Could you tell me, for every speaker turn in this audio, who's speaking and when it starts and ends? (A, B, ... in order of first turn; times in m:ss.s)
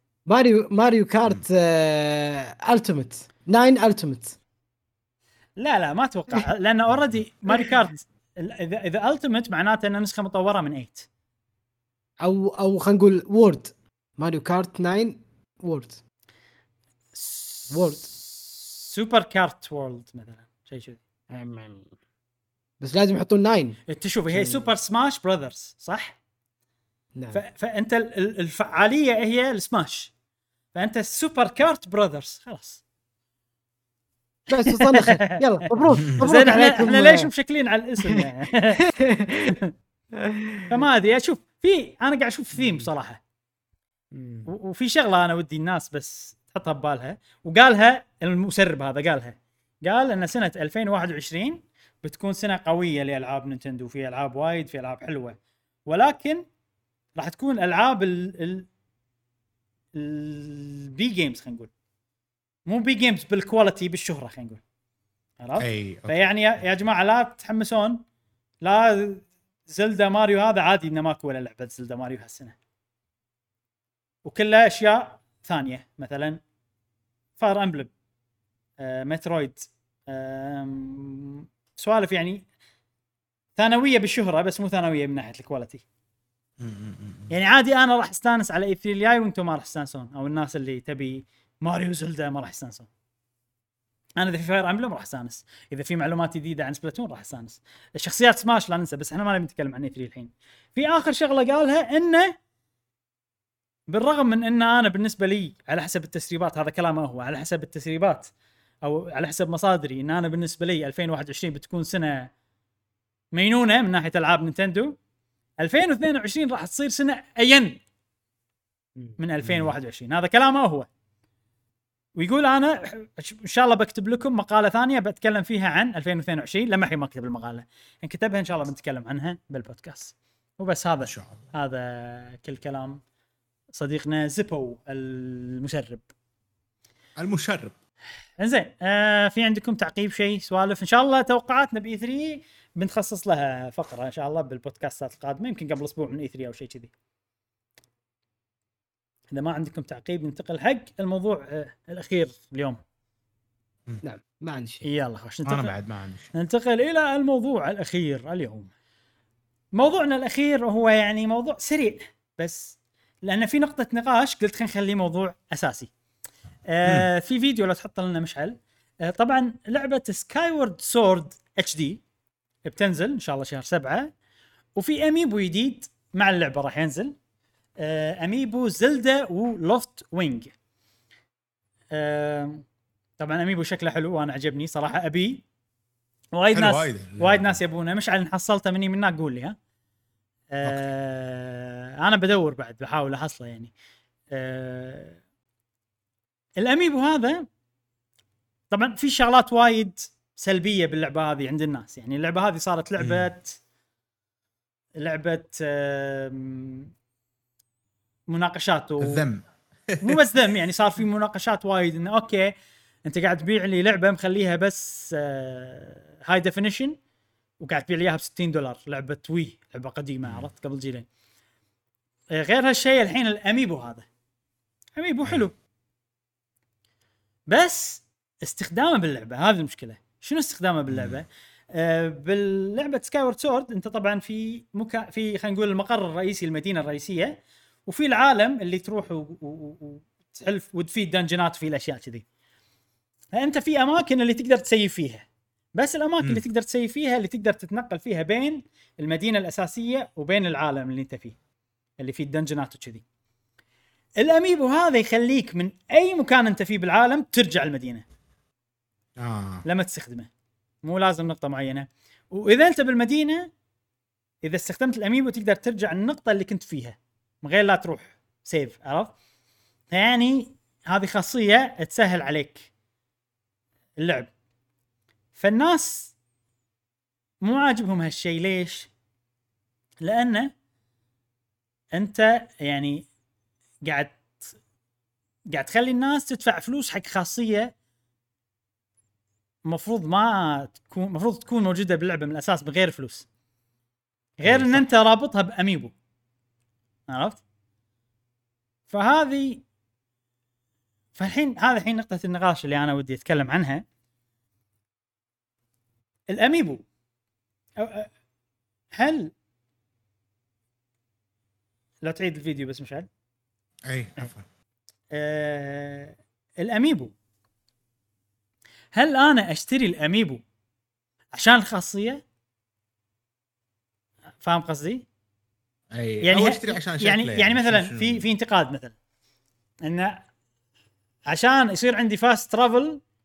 0:00.2-0:04.4 A
0:05.6-0:11.1 B
0:12.2-0:16.0 A
0:17.1-0:21.0 B
0:17.7-0:18.1 A
0:21.3-0:21.9 A
0:22.8-0:24.7 A
0:23.9-0:26.2 B
0:27.1-0:27.4 A
0:27.3-0:30.1 B
0:30.7-0:32.8 B
0:34.5-0:37.3 A
0:34.7-0:38.9 B
0:36.0-0:36.2 C
0:38.8-0:39.6 A
0:39.4-0:39.7 B
0:40.1-0:40.8 A
0:40.7-0:43.2 B
0:42.6-0:42.9 A
0:44.1-0:44.5 A
0:44.5-0:55.4 B
0:55.9-0:56.4 B
0:57.2-0:58.7 B
1:00.0-1:01.7 B
1:02.7-1:04.6 B
1:05.4-1:08.0 B
1:05.6-1:06.3 C
1:08.6-1:12.5 B
1:14.2-1:16.4 B
1:17.4-1:17.9 B
1:18.8-1:22.4 B
1:23.6-1:25.8 B
1:26.6-1:27.3 C
1:27.3-1:32.9 B
1:34.2-1:42.3 B
1:43.9-1:48.3 B
1:48.8-1:52.3 B
1:53.3-1:55.0 B
1:55.6-1:57.8 B
1:59.2-2:00.9 B
1:59.4-1:59.7 C
2:02.2-2:13.0 B
2:11.0-2:11.5 C
2:13.7-2:16.0 B
2:17.2-2:17.7 C
2:18.4-2:26.9 B
2:29.3-2:32.8 B
2:34.0-2:34.8 A
2:34.8-2:35.7 B
2:35.4-2:36.3 C
2:36.3-2:38.7 B
2:39.7-2:45.9 B
2:46.7-2:52.0 B
2:52.6-2:54.1 B
2:54.8-2:57.1 B
2:57.8-3:00.5 B
3:01.9-3:02.6 B
3:03.2-3:05.4 B
3:06.3-3:09.6 B
3:06.5-3:07.6 C
3:10.5-3:13.7 B
3:14.3-3:15.2 B
3:16.6-3:17.4 B
3:18.7-3:23.6 B
3:23.0-3:23.3 C
3:25.0-3:26.9 B
3:28.3-3:29.2 B
3:29.0-3:30.2 C
3:30.0-3:32.5 B
3:33.0-3:37.0 B
3:37.6-3:41.0 B
3:42.3-3:44.0 B
3:45.0-3:45.5 B
3:47.5-4:02.2 B
3:50.9-3:51.2 C
4:03.3-4:05.2 B
4:05.8-4:11.4 B
4:12.0-4:13.0 B
4:14.2-4:18.0 B
4:19.2-4:19.6 C
4:19.6-4:20.3 B
4:20.8-4:23.5 B
4:24.4-4:29.1 B
4:29.9-4:32.7 B
4:34.0-4:34.3 B
4:35.4-4:36.1 B
4:37.4-4:38.9 B
4:40.0-4:40.5 B
4:41.9-4:43.1 B
4:43.8-4:44.4 B
4:45.5-4:47.7 B
4:49.7-4:53.2 B
4:54.4-4:55.9 B
4:54.4-4:54.8 C
4:57.1-4:57.4 B
4:58.9-4:59.6 B
5:01.2-5:03.8 B
5:06.3-5:06.8 B
5:07.8-5:08.1 B
5:08.9-5:09.3 B
5:12.0-5:13.1 B
5:13.8-5:14.4 C
5:15.1-5:17.1 B
5:18.9-5:20.4 B
5:21.3-5:22.2 B
5:24.4-5:25.0 B
5:25.9-5:28.2 C
5:26.2-5:28.9 B
5:29.8-5:30.2 B
5:31.3-5:33.0 B